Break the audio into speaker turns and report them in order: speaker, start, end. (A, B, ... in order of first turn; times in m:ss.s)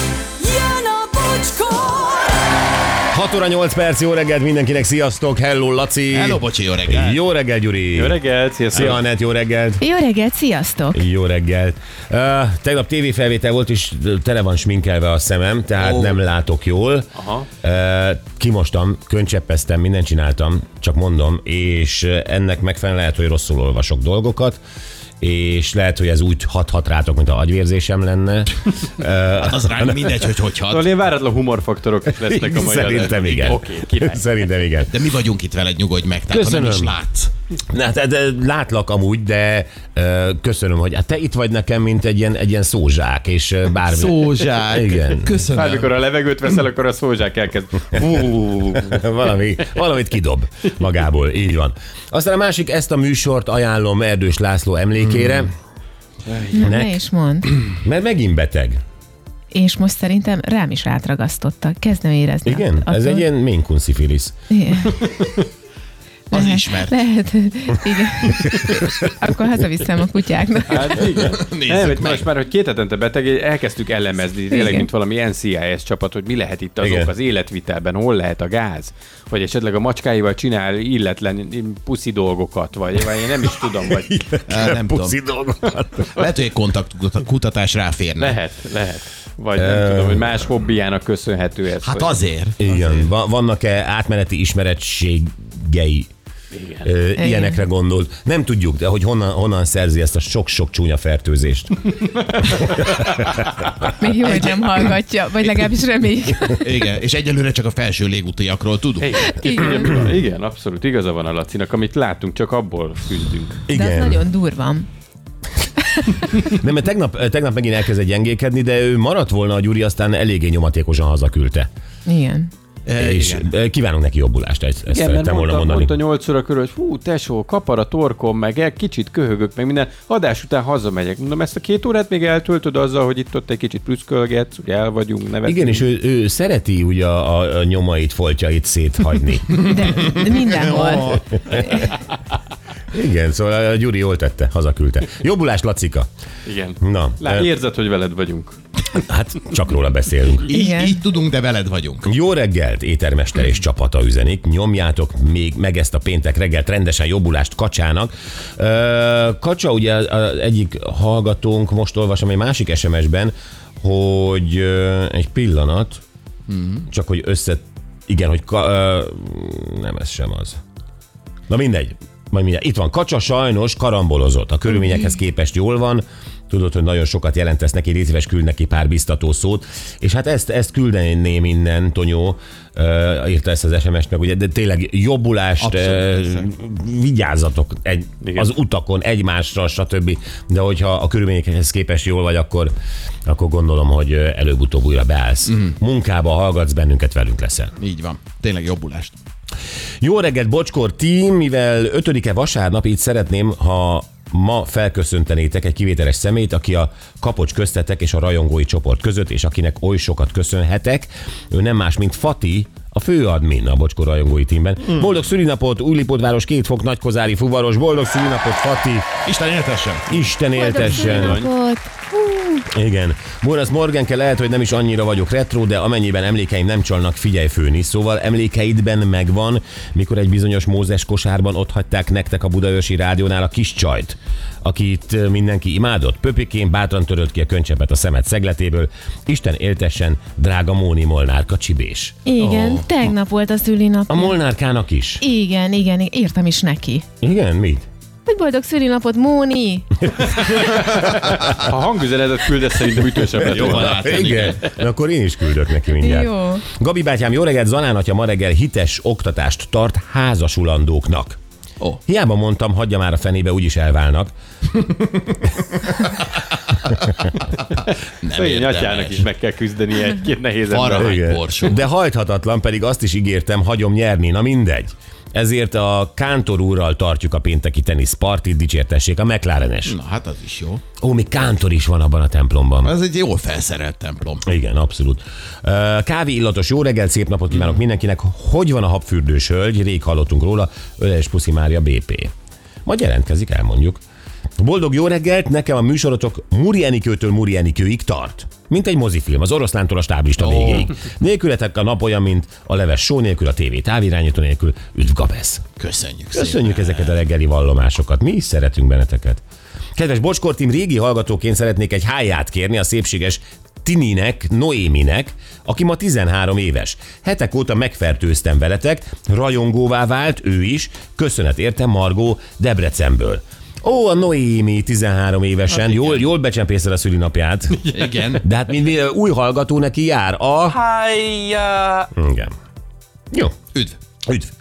0:00.4-0:02.6 A
0:03.1-0:08.2 B
0:06.1-0:07.2 C
0:07.9-0:09.0 D
0:08.7-0:09.9 B
0:09.8-0:11.0 E
0:10.9-0:17.1 B
0:15.8-0:16.2 C
0:17.2-0:17.5 D
0:17.6-0:24.6 B
0:25.2-0:30.2 B
0:29.4-0:30.9 C
0:30.7-0:34.2 D
0:32.3-0:35.0 B
0:32.6-0:33.6 C
0:34.9-0:37.3 C
0:36.3-0:37.0 B
0:37.7-0:45.4 B
0:43.9-0:46.0 C
0:45.5-0:49.0 D
0:48.7-0:55.5 B
0:56.6-0:57.5 E
0:56.6-0:57.0 B
0:57.6-0:58.8 B
0:59.5-1:03.3 E
1:02.5-1:04.3 B
1:04.5-1:05.1 E
1:06.3-1:07.0 C
1:06.3-1:11.1 E
1:10.7-1:24.1 D
1:11.2-1:12.3 C
1:14.5-1:14.9 E
1:16.8-1:17.1 B
1:23.9-1:26.3 B
1:24.5-1:25.2 C
1:26.1-1:28.4 C
1:28.2-1:32.2 D
1:29.6-1:30.3 B
1:31.8-1:33.1 C
1:32.6-1:36.1 B
1:36.5-1:36.9 D
1:36.8-1:41.8 B
1:37.2-1:37.6 E
1:42.5-1:42.8 B
1:43.8-1:46.6 E
1:46.6-1:49.3 C
1:49.0-1:53.6 D
1:49.3-1:50.0 E
1:53.7-1:54.3 B
1:53.7-1:54.9 E
1:56.0-1:56.3 E
1:56.4-2:01.7 B
2:02.1-2:02.5 E
2:02.9-2:03.5 C
2:03.0-2:05.9 B
2:04.9-2:15.8 D
2:15.4-2:20.0 B
2:19.6-2:21.9 E
2:19.7-2:21.5 C
2:22.9-2:26.1 B
2:26.5-2:28.6 D
2:26.8-2:27.5 B
2:28.9-2:30.6 B
2:30.4-2:32.1 C
2:30.5-2:31.0 E
2:32.1-2:46.0 B
2:46.5-2:46.9 C
2:46.9-2:50.6 B
2:51.5-3:12.7 B
3:05.6-3:06.1 C
3:08.2-3:08.5 D
3:13.3-3:17.7 B
3:17.8-3:19.2 C
3:20.0-3:39.1 B
3:39.3-3:40.1 C
3:40.1-3:41.5 B
3:40.6-3:42.6 E
3:40.8-3:41.5 D
3:42.7-4:02.9 B
4:02.2-4:04.4 E
4:04.1-4:05.2 B
4:05.2-4:07.0 E
4:07.2-4:07.9 B
4:08.3-4:10.9 E
4:10.9-4:14.5 D
4:13.4-4:14.6 C
4:13.4-4:21.4 B
4:16.0-4:16.6 E
4:22.1-4:24.3 B
4:24.9-4:25.3 C
4:28.2-4:29.3 C
4:28.3-4:31.2 D
4:30.7-4:31.8 C
4:31.0-4:40.0 B
4:39.8-4:40.8 C
4:41.0-4:42.9 B
4:42.8-4:44.4 C
4:44.4-4:52.3 B
4:52.9-4:54.0 B
4:54.6-5:05.6 B
5:00.4-5:00.9 C
5:05.8-5:07.2 C
5:06.3-5:09.4 B
5:10.0-5:30.8 B
5:25.7-5:26.3 C
5:27.9-5:28.4 C
5:30.8-5:32.1 D
5:32.1-5:32.5 B
5:34.3-5:34.5 B